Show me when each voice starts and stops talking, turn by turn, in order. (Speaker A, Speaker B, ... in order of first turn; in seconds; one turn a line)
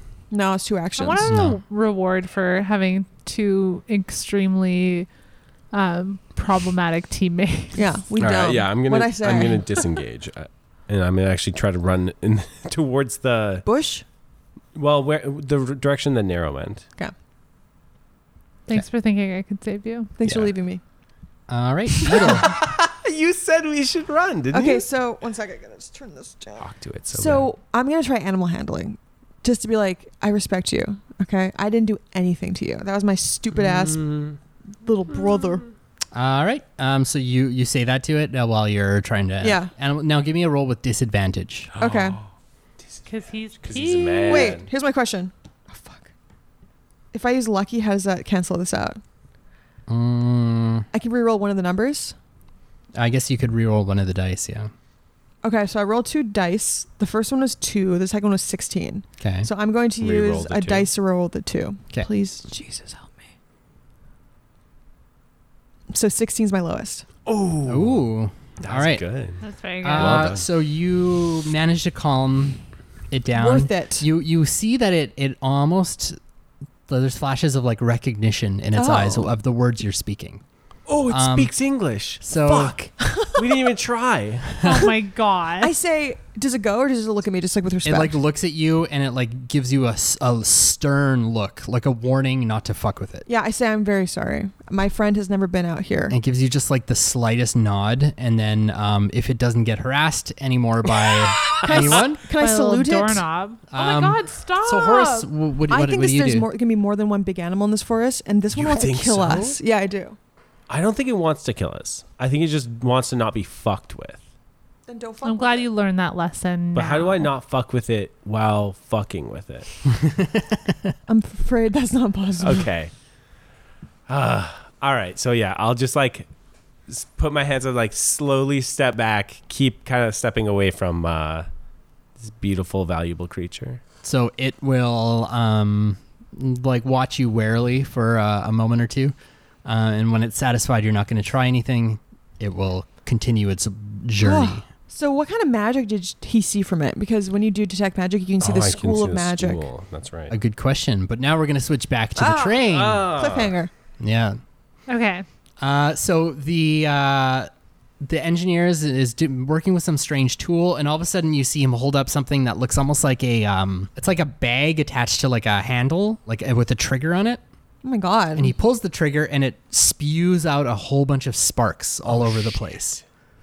Speaker A: 0.3-1.3
Speaker B: 1.0-5.1
Speaker C: 1.2-1.6
Speaker B: 5.7-7.8
Speaker A: 7.7-9.8
Speaker D: 8.2-13.6
Speaker A: 13.6-14.0
Speaker D: 14.7-16.8
Speaker B: 18.7-20.1
Speaker A: 20.2-20.8
Speaker C: 20.2-20.5
Speaker C: 21.5-22.5
Speaker A: 22.0-22.4
Speaker D: 22.1-24.9
Speaker A: 24.5-34.2
Speaker D: 26.6-27.5
Speaker D: 33.5-34.4
Speaker A: 34.8-35.6
Speaker C: 36.1-41.7
Speaker A: 39.4-39.7
Speaker D: 41.7-42.2
Speaker A: 41.8-42.2
Speaker B: 43.0-44.6
Speaker D: 43.6-44.7
Speaker A: 44.3-46.1
Speaker A: 47.1-49.0
Speaker C: 49.9-50.9
Speaker A: 50.9-52.1
Speaker C: 52.9-54.7
Speaker A: 55.4-63.1
Speaker C: 59.2-59.5
Speaker D: 60.0-60.9
Speaker A: 65.9-67.0
Speaker D: 67.2-68.1
Speaker C: 67.7-69.0
Speaker D: 68.6-69.4
Speaker B: 69.4-70.3
Speaker C: 69.8-72.6
Speaker D: 69.9-70.4
Speaker C: 73.1-76.2
Speaker A: 73.3-74.1
Speaker C: 76.9-80.4
Speaker A: 78.7-79.3
Speaker D: 80.9-84.5
Speaker C: 81.1-81.5
Speaker C: 82.2-82.8
Speaker A: 83.0-83.6
Speaker B: 84.6-85.7
Speaker A: 85.6-88.2
Speaker C: 87.8-93.2
Speaker A: 93.3-96.2
Speaker C: 96.1-102.2
Speaker D: 101.6-101.9
Speaker A: 101.6-103.2
Speaker B: 102.3-105.3
Speaker C: 103.7-106.5
Speaker A: 105.7-110.2
Speaker D: 108.5-109.6
Speaker D: 110.7-114.2
Speaker A: 114.9-115.7
Speaker B: 115.2-117.3
Speaker D: 116.7-119.7
Speaker C: 119.9-120.9
Speaker A: 121.1-122.7
Speaker D: 122.4-122.9
Speaker D: 124.1-126.3
Speaker D: 126.9-131.5
Speaker D: 132.2-133.8
Speaker C: 134.0-144.7
Speaker A: 144.2-149.6
Speaker D: 148.4-150.3
Speaker C: 150.3-153.1
Speaker A: 152.2-153.7
Speaker D: 152.7-153.5
Speaker C: 154.0-154.4
Speaker B: 154.9-155.2
Speaker C: 155.6-167.4
Speaker A: 167.8-168.5
Speaker C: 168.3-173.0
Speaker D: 172.1-172.8